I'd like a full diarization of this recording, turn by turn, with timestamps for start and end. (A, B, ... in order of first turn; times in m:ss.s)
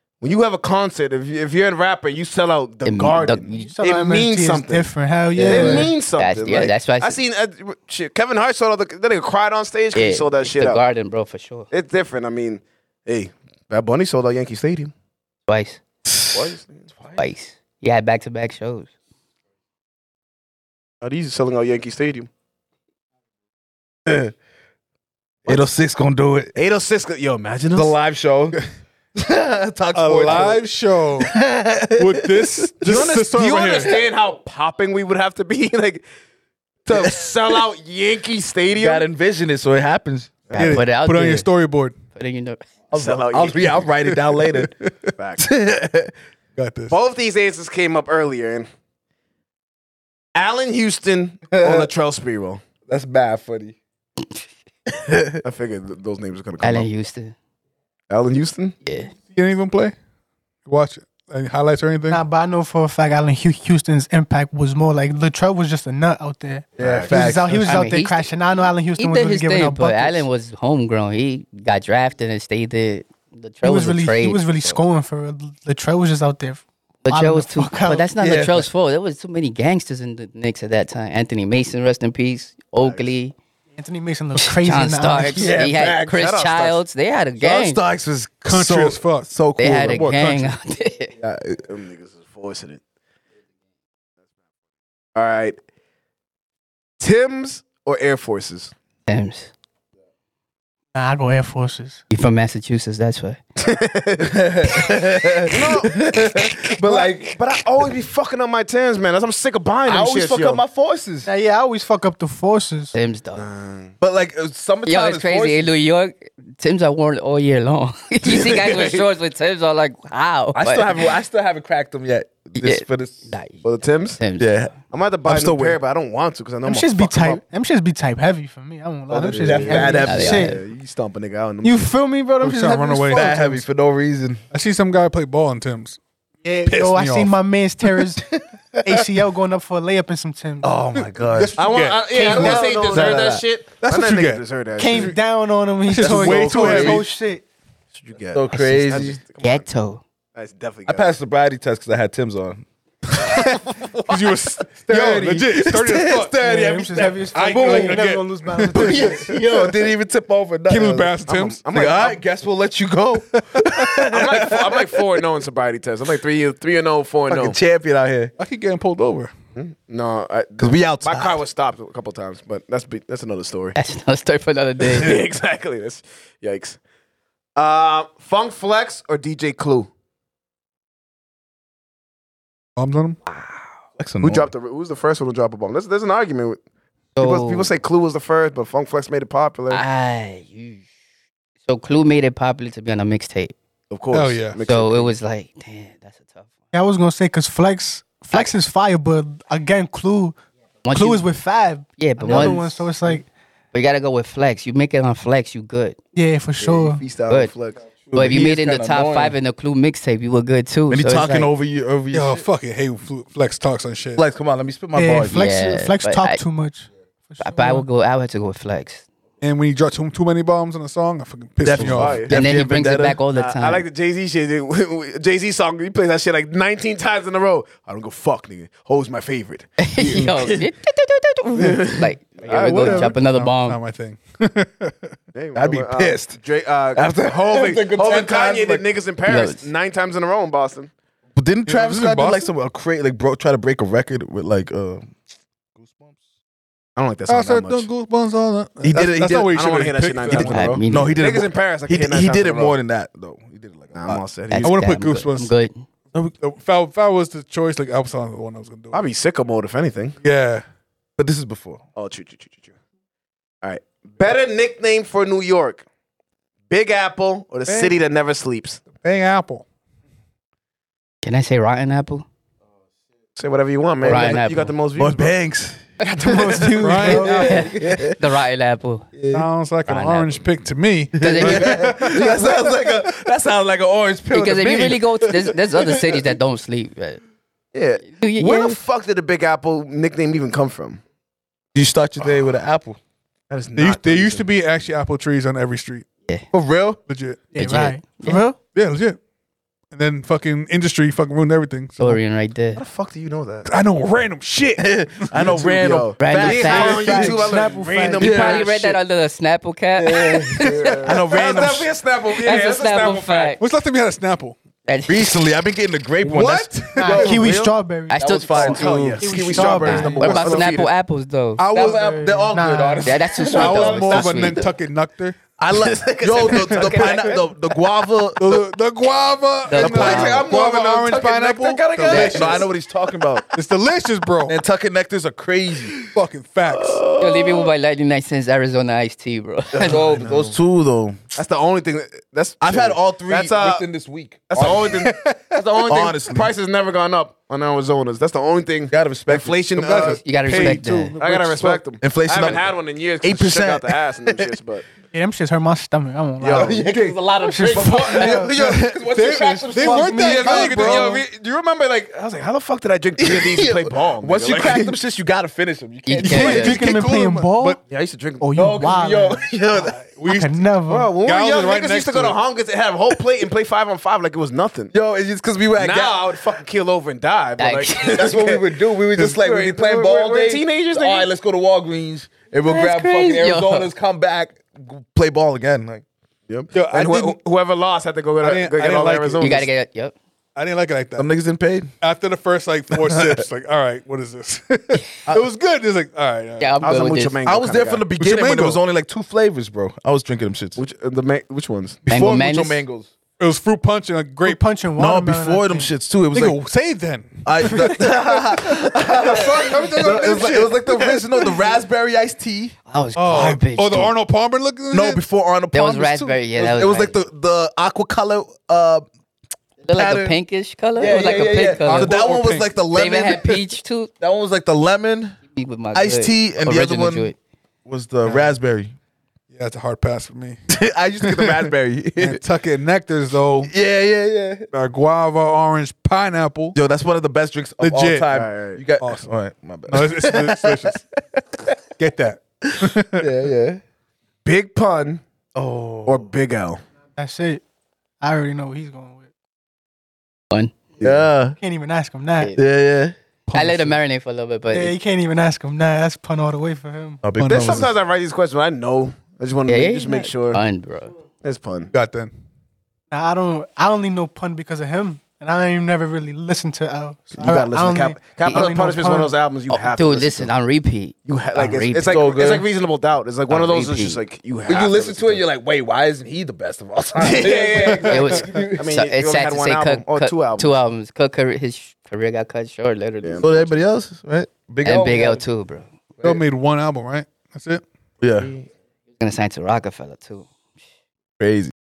0:00.2-0:10.8 A
0:02.8-0:03.8 B
0:03.6-0:05.9 C
0:05.3-0:05.9 D
0:06.1-0:07.2 B
0:09.9-0:11.7 B
0:11.7-0:14.9 A
0:15.5-0:15.8 B
0:16.0-0:16.5 D
0:16.3-0:17.2 A
0:17.2-0:18.9 B
0:21.0-0:22.3 A
0:25.5-0:26.5 D
0:26.5-0:27.9 A
0:27.7-0:28.6 D
0:29.1-0:30.6 D
0:29.9-0:31.3 E
0:31.2-0:33.1 D
0:32.0-0:34.0 E
0:32.8-0:36.0 A
0:36.8-0:39.1 A
0:36.9-0:37.2 D
0:38.7-0:40.4 D
0:40.5-0:41.5 B
0:40.6-0:42.0 E
0:42.1-0:42.6 B
0:42.9-0:44.7 D
0:42.9-0:43.9 A
0:44.6-0:44.9 E
0:45.2-0:45.5 A
0:45.4-0:46.1 D
0:46.6-0:47.0 E
0:46.9-0:48.7 A
0:50.3-0:52.6 A
0:51.5-0:51.9 D
0:52.9-0:53.8 D
0:54.9-0:55.4 D
0:55.4-0:56.9 A
0:56.6-0:57.3 B
0:58.1-0:58.8 A
0:58.8-0:59.1 B
0:59.3-0:59.9 E
1:00.6-1:02.2 E
1:02.1-1:10.2 C
1:06.8-1:07.4 A
1:06.8-1:07.8 D
1:07.6-1:08.3 B
1:08.9-1:14.8 B
1:13.6-1:18.1 C
1:17.0-1:23.3 B
1:18.2-1:18.7 D
1:22.8-1:23.1 A
1:23.8-1:25.6 C
1:24.4-1:27.8 B
1:25.2-1:26.2 D
1:26.0-1:26.8 A
1:27.4-1:30.0 D
1:28.5-1:29.3 E
1:29.6-1:31.1 B
1:29.8-1:30.5 E
1:31.2-1:31.6 D
1:31.6-1:32.8 A
1:35.1-1:35.6 A
1:37.0-1:38.7 A
1:39.1-1:39.5 B
1:40.9-1:42.0 C
1:42.1-1:43.4 B
1:43.6-1:44.9 A
1:44.2-1:47.4 D
1:45.5-1:50.6 A
1:49.8-1:51.3 D
1:51.2-1:52.9 C
1:52.9-1:53.5 B
1:53.4-1:53.9 A
1:54.0-1:55.7 D
1:54.8-2:01.1 B
1:58.3-1:59.0 A
2:00.5-2:03.3 D
2:02.5-2:04.7 B
2:03.6-2:04.2 A
2:04.4-2:05.8 D
2:04.9-2:07.4 A
2:06.6-2:10.6 C
2:09.1-2:11.9 A
2:09.3-2:10.6 D
2:10.0-2:10.5 B
2:11.6-2:13.6 C
2:12.4-2:13.6 E
2:13.1-2:14.4 D
2:14.5-2:16.0 E
2:16.4-2:18.3 C
2:16.7-2:17.3 E
2:18.8-2:20.8 C
2:20.6-2:21.5 D
2:21.3-2:22.6 E
2:21.6-2:25.2 A
2:22.1-2:23.2 C
2:22.2-2:23.4 D
2:23.8-2:25.2 E
2:24.8-2:27.4 C
2:25.9-2:27.1 E
2:26.0-2:27.1 D
2:28.0-2:29.6 A
2:28.3-2:29.2 D
2:29.4-2:30.0 B
2:30.3-2:31.1 A
2:30.9-2:38.0 D
2:33.1-2:36.4 E
2:36.4-2:39.3 C
2:37.3-2:39.3 E
2:38.7-2:41.2 D
2:40.7-2:41.6 E
2:41.2-2:42.2 A
2:41.7-2:45.1 D
2:43.5-2:43.8 E
2:44.1-2:47.6 A
2:47.3-2:48.3 D
2:48.4-2:49.3 E
2:49.6-2:53.8 A
2:50.6-2:51.4 D
2:53.8-2:55.2 B
2:54.8-2:56.8 A
2:57.6-2:59.9 A
3:02.8-3:03.2 E
3:04.0-3:04.5 D
3:04.2-3:06.6 A
3:07.2-3:07.7 B
3:07.2-3:09.8 A
3:09.7-3:10.8 B
3:11.7-3:13.5 B
3:13.9-3:15.1 A
3:14.1-3:14.6 E
3:14.6-3:16.5 B
3:16.7-3:20.4 C
3:20.8-3:21.3 B
3:20.9-3:23.3 C
3:22.0-3:23.2 B
3:22.3-3:22.6 D
3:23.7-3:26.0 B
3:26.1-3:27.0 C
3:26.6-3:27.8 A
3:28.1-3:29.4 D
3:28.1-3:31.5 B
3:30.9-3:32.4 D
3:32.1-3:34.2 E
3:34.2-3:35.4 D
3:34.9-3:37.8 C
3:35.3-3:36.4 B
3:37.4-3:39.0 B
3:39.4-3:42.2 E
3:41.6-3:43.2 D
3:41.7-3:42.3 A
3:42.3-3:43.8 B
3:43.3-3:50.6 A
3:49.8-3:53.8 B
3:51.6-3:53.1 A
3:52.6-3:55.1 E
3:55.3-4:00.9 A
3:55.5-3:56.4 D
3:56.9-3:58.8 D
3:59.2-3:59.7 B
4:01.3-4:05.1 D
4:01.6-4:02.4 E
4:05.8-4:06.2 D
4:07.0-4:07.9 A
4:07.3-4:10.8 E
4:08.8-4:09.5 D
4:08.9-4:12.8 A
4:10.3-4:14.2 D
4:10.3-4:11.2 B
4:13.9-4:14.7 A
4:14.5-4:15.8 B
4:14.6-4:15.5 E
4:16.4-4:19.0 E
4:18.9-4:20.2 A
4:20.2-4:20.6 E
4:21.2-4:21.8 D
4:22.0-4:22.7 A
4:23.6-4:25.8 A
4:26.7-4:28.8 A
4:27.6-4:27.9 E
4:29.0-4:29.6 E
4:31.2-4:32.2 B
4:33.4-4:35.3 A
4:34.0-4:34.3 D
4:34.0-4:34.7 B
4:35.0-4:38.2 D
4:36.0-4:37.7 C
4:36.8-4:37.6 E
4:37.4-4:39.1 B
4:39.1-4:39.4 D
4:39.3-4:42.7 E
4:39.9-4:40.4 B
4:41.2-4:46.2 D
4:41.2-4:41.8 B
4:44.3-4:47.2 B
4:47.7-4:51.0 A
4:48.0-4:48.8 B
4:51.7-4:53.0 D
4:53.5-4:54.5 A
4:53.8-4:56.0 E
4:56.5-4:57.0 D
4:57.1-4:57.5 E
4:57.5-4:58.6 C
4:57.6-4:58.4 B
4:58.7-4:59.2 E
4:59.9-5:02.2 E
5:02.0-5:02.8 B
5:02.7-5:03.7 A
5:03.6-5:05.3 E
5:04.8-5:07.5 D
5:05.4-5:09.0 A
5:06.2-5:07.3 B
5:06.4-5:08.3 C
5:08.1-5:11.2 B
5:08.2-5:08.7 D
5:10.0-5:11.9 D
5:10.6-5:13.6 A
5:12.3-5:13.6 B
5:13.6-5:14.6 E
5:14.8-5:15.5 B
5:15.1-5:20.7 D
5:16.2-5:17.5 E
5:17.0-5:18.4 C
5:18.1-5:19.0 B
5:18.5-5:20.9 A
5:19.2-5:20.6 C
5:19.6-5:21.6 B
5:21.6-5:22.3 E
5:21.7-5:24.4 D
5:21.9-5:23.2 C
5:23.0-5:24.6 B
5:23.4-5:25.4 E
5:23.6-5:24.0 A
5:25.6-5:28.6 D
5:25.7-5:27.5 A
5:26.5-5:27.2 E
5:28.4-5:32.6 E
5:29.7-5:30.5 B
5:29.8-5:32.7 A
5:29.8-5:30.5 D
5:32.1-5:32.4 B
5:32.1-5:33.4 D
5:33.5-5:34.6 E
5:34.5-5:36.0 D
5:36.1-5:37.0 E
5:36.9-5:37.2 A
5:37.2-5:37.6 D
5:37.2-5:40.0 B
5:39.7-5:40.6 A
5:39.8-5:41.2 D
5:41.3-5:43.8 A
5:42.6-5:45.0 D
5:44.5-5:50.2 A
5:45.8-5:46.5 D
5:48.9-5:49.6 D
5:49.8-5:51.8 E
5:50.0-5:51.1 B
5:51.2-5:54.8 A
5:52.0-5:54.6 D
5:55.1-5:56.8 C
5:56.4-5:58.4 A
5:56.4-6:01.2 D
5:57.4-5:58.6 C
5:58.5-6:01.2 E
5:59.6-6:00.9 C
6:00.1-6:04.9 A
6:03.2-6:06.9 D
6:06.0-6:06.8 B
6:06.2-6:07.8 E
6:06.3-6:07.8 C
6:07.9-6:08.6 A
6:08.4-6:09.4 C
6:08.6-6:09.9 D
6:09.7-6:10.6 E
6:10.2-6:11.1 C
6:10.9-6:14.9 A
6:11.2-6:12.4 E
6:14.9-6:16.3 D
6:15.8-6:21.3 A
6:17.6-6:18.3 B
6:18.0-6:26.0 D
6:22.6-6:23.9 B
6:26.5-6:29.7 A
6:26.7-6:27.4 E
6:28.4-6:29.4 E
6:29.4-6:30.1 B
6:30.6-6:31.3 E
6:31.2-6:31.9 D
6:32.0-6:36.7 E
6:32.9-6:33.4 D
6:36.6-6:37.4 B
6:36.8-6:38.0 A
6:37.4-6:40.8 D
6:38.2-6:38.8 E
6:40.8-6:42.0 A
6:42.1-6:43.1 D
6:42.1-6:42.8 B
6:43.4-6:44.6 E
6:44.4-6:45.9 C
6:45.0-6:46.6 D
6:46.3-6:50.8 E
6:47.4-6:52.7 D
6:49.0-6:51.2 A
6:52.9-6:54.1 B
6:53.2-6:55.2 E
6:54.9-6:59.0 D
6:55.7-6:57.2 B
6:59.8-7:02.2 B
6:59.9-7:00.4 D
7:01.0-7:03.6 D
7:01.8-7:02.7 E
7:02.9-7:04.1 B
7:04.2-7:05.4 D
7:05.5-7:07.4 B
7:05.9-7:07.3 D
7:07.8-7:08.9 D
7:09.5-7:10.6 E
7:10.7-7:12.4 D
7:11.2-7:13.7 E
7:13.6-7:14.7 D
7:14.7-7:16.8 E
7:16.7-7:21.7 D
7:17.8-7:18.3 E
7:18.3-7:18.8 A
7:19.0-7:19.3 E
7:19.9-7:21.0 E
7:22.0-7:23.3 E
7:22.7-7:23.8 D
7:24.4-7:25.2 A
7:25.5-7:26.3 D
7:26.0-7:26.8 A
7:27.2-7:27.6 C
7:28.2-7:29.3 C
7:31.0-7:31.3 A
7:31.0-7:31.6 D
7:31.6-7:32.6 C
7:32.6-7:33.1 D
7:33.5-7:34.0 E
7:33.5-7:34.9 B
7:34.7-7:37.2 C
7:37.2-7:37.9 D
7:37.4-7:37.9 E
7:37.4-7:40.6 A
7:39.7-7:41.1 B
7:41.4-7:41.9 A
7:41.9-7:42.3 E
7:43.1-7:49.3 C
7:47.3-7:50.5 A
7:48.4-7:48.7 B
7:49.7-7:52.4 B
7:51.2-7:55.4 A
7:52.1-7:52.7 D
7:53.5-7:54.2 B
7:54.6-7:58.9 D
7:57.2-8:00.7 A
7:58.0-8:03.7 B
8:03.4-8:05.4 D
8:04.8-8:05.9 B
8:06.2-8:07.8 E
8:08.2-8:08.6 D
8:09.2-8:10.5 B
8:11.4-8:11.7 D